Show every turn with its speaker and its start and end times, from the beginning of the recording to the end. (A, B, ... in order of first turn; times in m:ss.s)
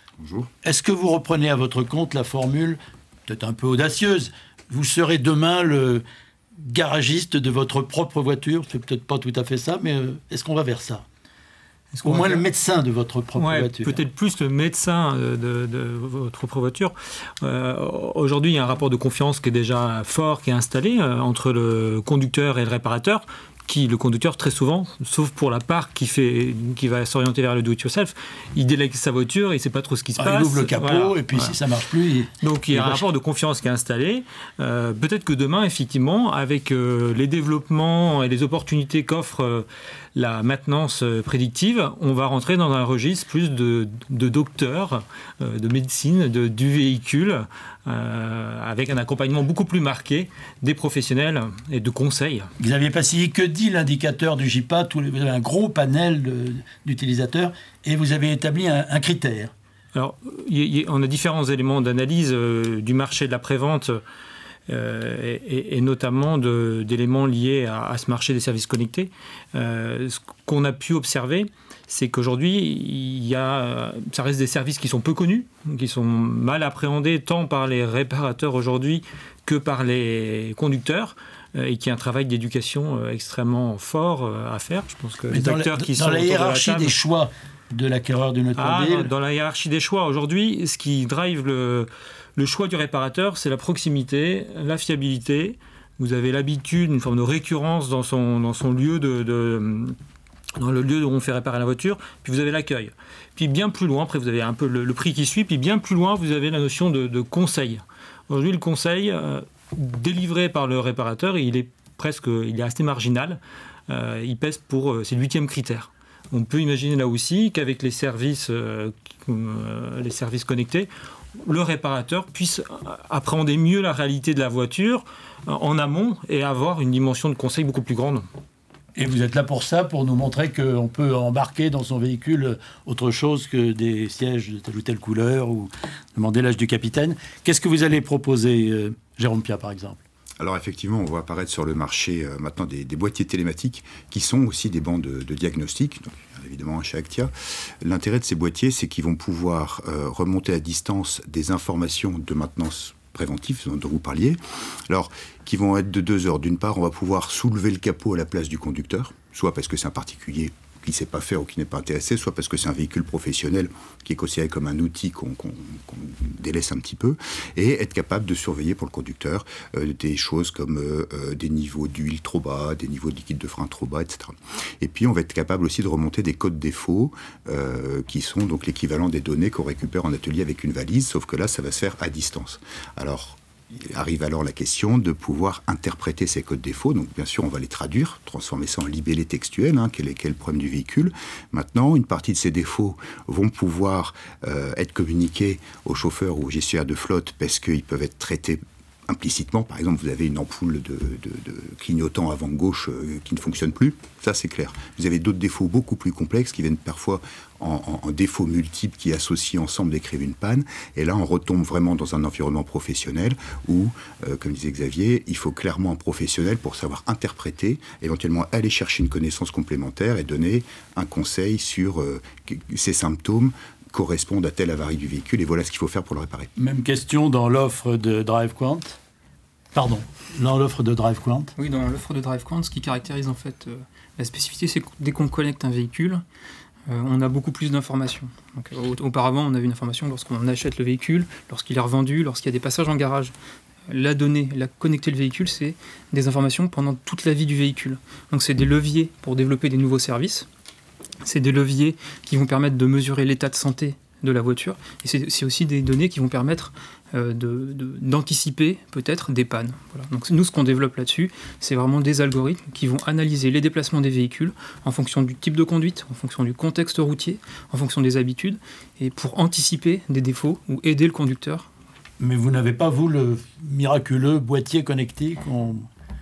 0:00.2-0:00.5 A
0:00.6-0:06.0 B
0:06.6-0:11.0 B
0:11.9-0:12.4 C
0:12.0-0:14.0 B
0:13.3-0:31.6 C
0:30.2-0:33.1 B
0:32.4-0:52.5 C
0:52.6-0:59.5 B
0:59.9-1:04.0 C
1:04.7-1:27.0 C
1:25.3-1:29.1 B
1:28.6-1:39.9 C
1:40.6-2:08.2 C
2:09.0-2:20.0 B
2:20.4-2:27.3 A
2:27.8-3:46.5 A
3:46.6-3:49.0 B
3:49.7-3:51.5 B
3:51.6-3:56.2 D
3:56.9-4:03.3 D
4:03.9-4:10.5 D
4:11.2-4:31.7 D
4:32.2-4:35.9 B